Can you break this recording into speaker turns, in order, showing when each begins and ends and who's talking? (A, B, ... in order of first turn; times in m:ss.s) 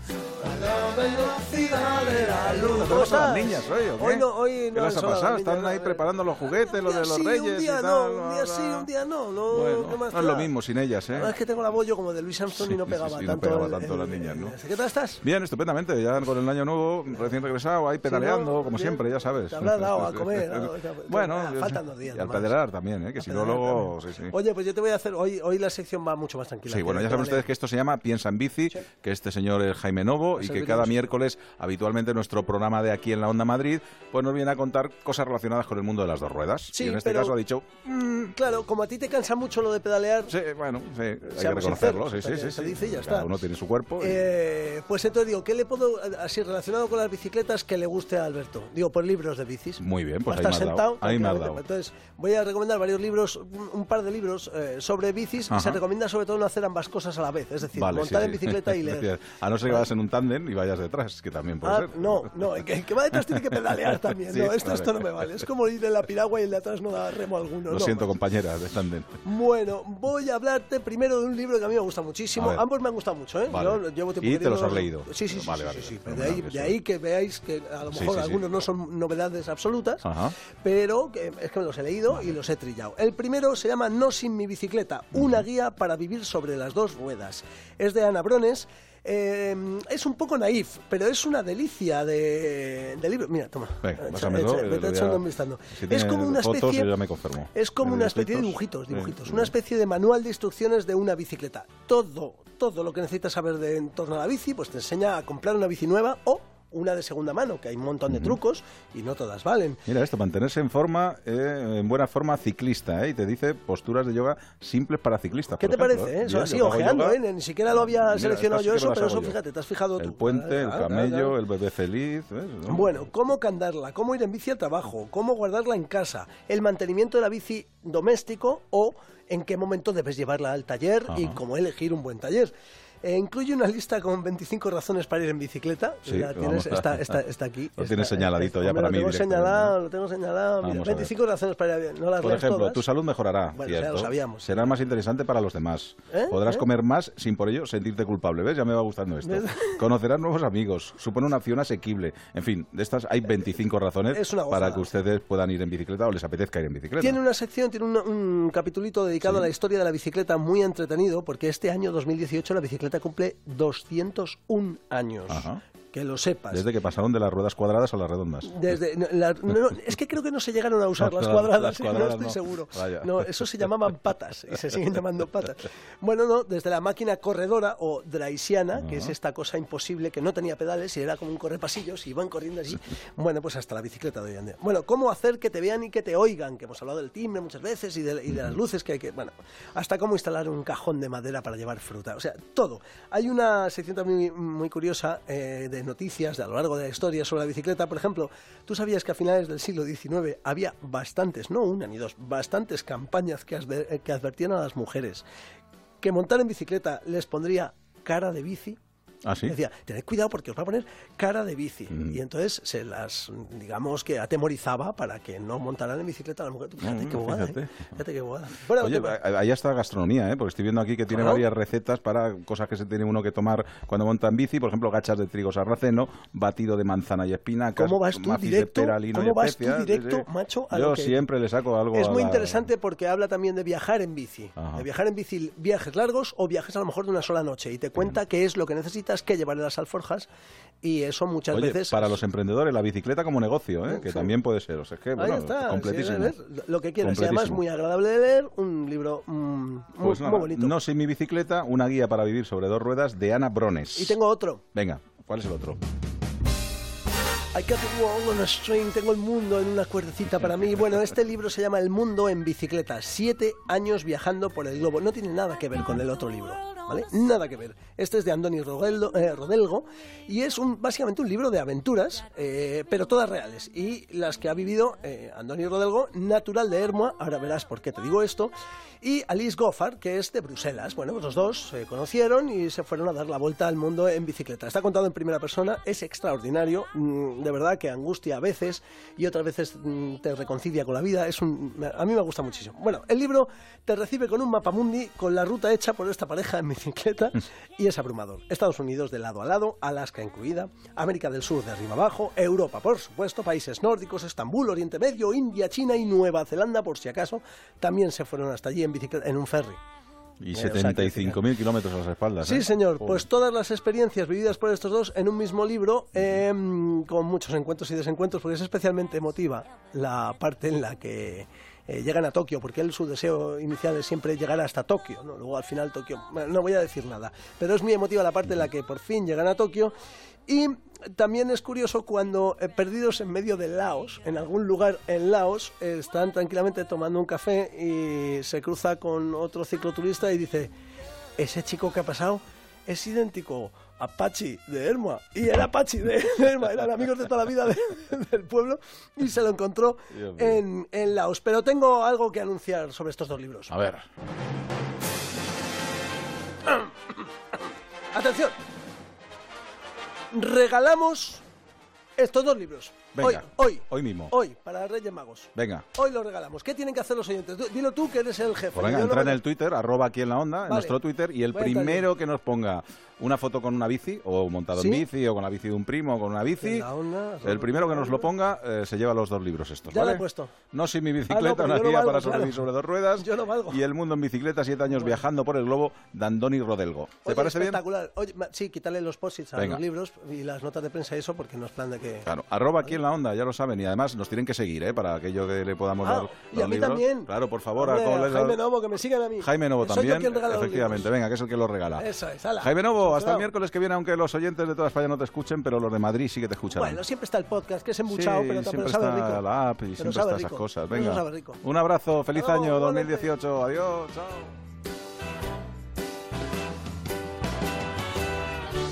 0:00.4-0:06.1 A
0:02.6-0:08.9 B
0:06.6-0:10.5 A
0:09.5-0:11.3 B
0:11.1-0:15.2 A
0:12.5-0:14.6 B
0:15.2-0:24.4 B
0:18.0-0:22.6 A
0:23.2-0:27.5 A
0:26.7-0:37.9 B
0:30.4-0:31.0 A
0:36.7-0:37.4 A
0:37.9-0:40.4 A
0:40.3-0:44.3 B
0:41.3-0:43.3 A
0:44.0-0:59.1 A
0:49.8-0:51.6 B
0:55.5-0:55.8 B
0:57.7-1:02.6 B
1:01.6-1:08.2 A
1:03.1-1:05.3 B
1:07.7-1:09.2 B
1:09.2-1:20.1 A
1:12.4-1:12.6 B
1:13.5-1:16.8 B
1:17.9-1:18.4 B
1:20.0-1:20.4 B
1:20.6-1:36.9 A
1:33.8-1:39.5 B
1:37.5-1:49.8 A
1:48.1-1:48.4 B
1:49.9-1:57.2 B
1:55.6-2:01.4 A
1:57.7-1:59.4 B
2:00.0-2:03.0 B
2:02.7-2:22.8 A
2:11.1-2:11.4 B
2:16.1-2:17.2 B
2:17.8-2:19.8 B
2:20.6-2:21.1 B
2:22.2-2:37.2 B
2:23.6-2:24.5 A
2:26.1-2:26.7 A
2:29.2-2:29.9 A
2:34.1-2:34.9 A
2:37.0-2:46.7 A
2:45.3-2:45.6 B
2:46.5-2:48.8 B
2:48.4-3:25.3 A
2:51.0-2:53.5 B
2:58.8-2:59.1 B
3:26.0-3:28.8 A
3:29.2-3:29.6 B
3:29.4-3:39.2 A
3:36.8-3:37.8 B
3:38.7-3:52.7 B
3:41.1-3:41.4 A
3:47.8-3:51.3 A
3:51.9-4:00.3 A
3:54.6-3:54.8 B
4:00.8-4:02.2 A
4:01.5-4:06.4 B
4:03.8-4:04.3 A
4:05.2-4:10.8 A
4:07.0-4:07.6 B
4:10.0-4:14.2 B
4:14.0-4:14.6 A
4:14.8-4:15.8 B
4:17.5-5:09.8 A
5:10.4-5:13.2 B
5:10.5-5:11.4 A
5:12.4-5:29.9 A
5:30.5-5:40.7 A
5:41.4-5:53.8 A
5:50.1-5:50.6 B
5:53.7-5:54.1 B
5:56.6-5:57.2 A
5:58.1-5:58.6 A
6:00.3-6:01.4 A
6:02.2-6:09.4 A
6:03.2-6:04.3 B
6:05.6-6:05.9 B
6:08.8-6:16.9 B
6:10.7-6:11.0 A
6:11.5-6:12.1 A
6:14.8-6:15.0 A
6:16.6-6:18.3 A
6:17.4-6:27.8 B
6:19.9-6:20.5 A
6:21.3-6:22.6 A
6:23.2-6:23.8 A
6:24.9-6:25.2 A
6:27.2-6:32.3 A
6:29.6-6:29.8 B
6:32.2-6:38.6 B
6:36.0-6:41.1 A
6:39.4-6:42.1 B
6:42.0-6:43.5 A
6:42.6-6:47.0 B
6:46.7-6:49.4 A
6:48.1-6:54.5 B
6:50.0-6:51.6 A
6:52.3-6:53.3 A